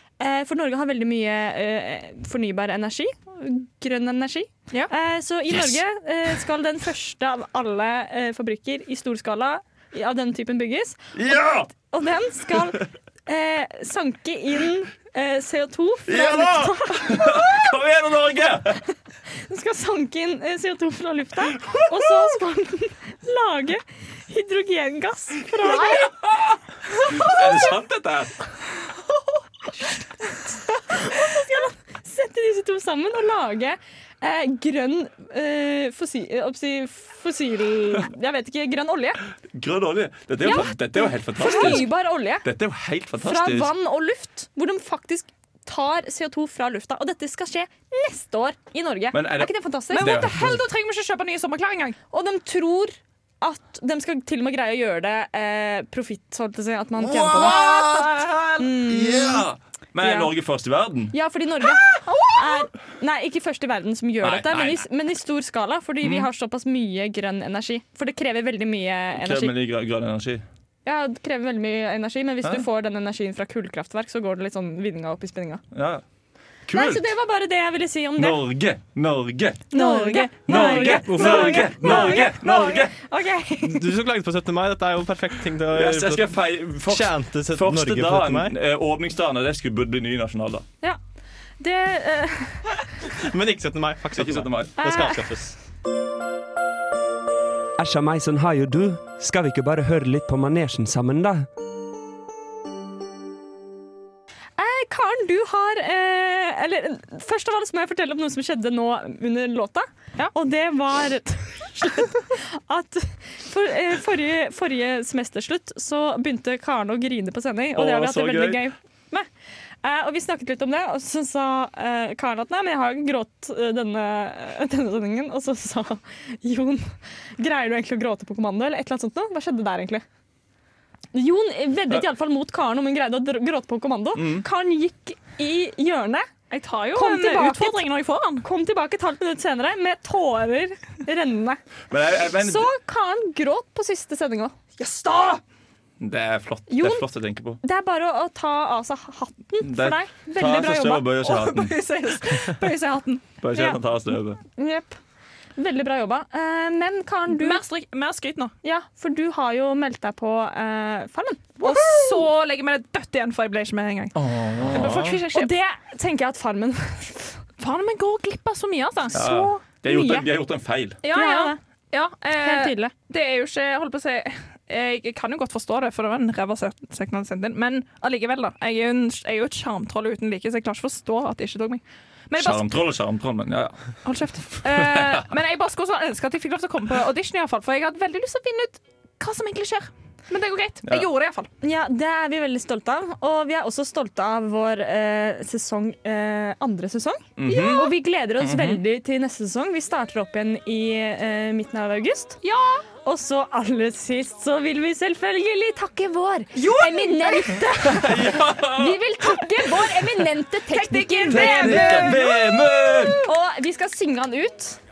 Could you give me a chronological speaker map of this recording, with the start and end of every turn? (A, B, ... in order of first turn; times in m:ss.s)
0:00.2-0:11.2 A
0:05.5-0:05.8 B
0:11.1-0:11.7 B
0:11.7-0:17.7 A
0:16.1-0:18.9 B
0:19.4-0:26.1 A
0:25.7-0:28.5 B
0:25.7-0:26.0 C
0:27.0-0:27.4 A
0:30.0-0:39.2 A
0:39.5-0:41.9 B
0:40.4-0:42.5 A
0:42.4-0:43.7 B
0:43.2-0:50.1 A
0:49.1-0:50.6 B
0:49.9-0:52.0 C
0:52.1-0:58.0 A
0:57.0-1:01.1 B
0:57.4-0:58.8 C
0:58.6-0:59.4 A
1:00.0-1:00.3 A
1:01.1-1:09.5 A
1:02.0-1:02.6 C
1:04.2-1:04.8 B
1:09.2-1:10.4 B
1:10.8-1:15.6 A
1:15.7-1:16.0 B
1:16.7-1:17.1 B
1:16.7-1:18.4 A
1:18.2-1:19.7 B
1:19.7-1:21.0 C
1:19.7-1:23.9 A
1:20.5-1:22.9 B
1:20.8-1:22.0 D
1:23.6-1:26.3 D
1:25.7-1:30.6 B
1:26.9-1:28.6 D
1:31.6-1:32.8 A
1:33.1-1:35.6 D
1:34.2-1:34.7 B
1:34.8-1:35.2 A
1:37.8-1:41.5 E
1:44.6-1:59.3 A
1:57.8-1:58.6 B
1:59.8-2:10.0 A
2:11.1-2:16.3 A
2:14.1-2:14.5 B
2:16.5-2:18.5 C
2:17.0-2:17.9 A
2:18.4-2:21.6 A
2:21.9-2:22.7 B
2:22.2-2:24.5 A
2:24.8-2:25.4 C
2:26.0-2:27.6 B
2:26.7-2:27.0 A
2:27.6-2:31.1 A
2:29.6-2:31.7 B
2:31.2-2:33.3 C
2:33.4-2:34.4 B
2:34.6-2:35.0 A
2:35.6-2:37.6 A
2:37.3-2:38.5 C
2:38.6-2:42.3 A
2:41.6-2:45.5 C
2:44.2-2:45.1 B
2:44.7-2:47.4 A
2:44.8-2:45.2 D
2:47.6-2:50.3 C
2:49.1-2:51.0 B
2:51.0-3:02.7 C
2:51.1-2:51.6 A
2:52.4-2:52.9 A
3:02.4-3:03.8 B
3:04.0-3:11.5 C
3:04.6-3:05.3 B
3:11.6-3:22.4 A
3:17.4-3:18.8 B
3:17.5-3:17.9 C
3:22.4-3:22.8 C
3:23.0-3:32.4 A
3:26.6-3:27.9 C
3:27.9-3:29.0 B
3:30.7-3:33.3 C
3:31.3-3:33.2 B
3:33.2-3:34.8 A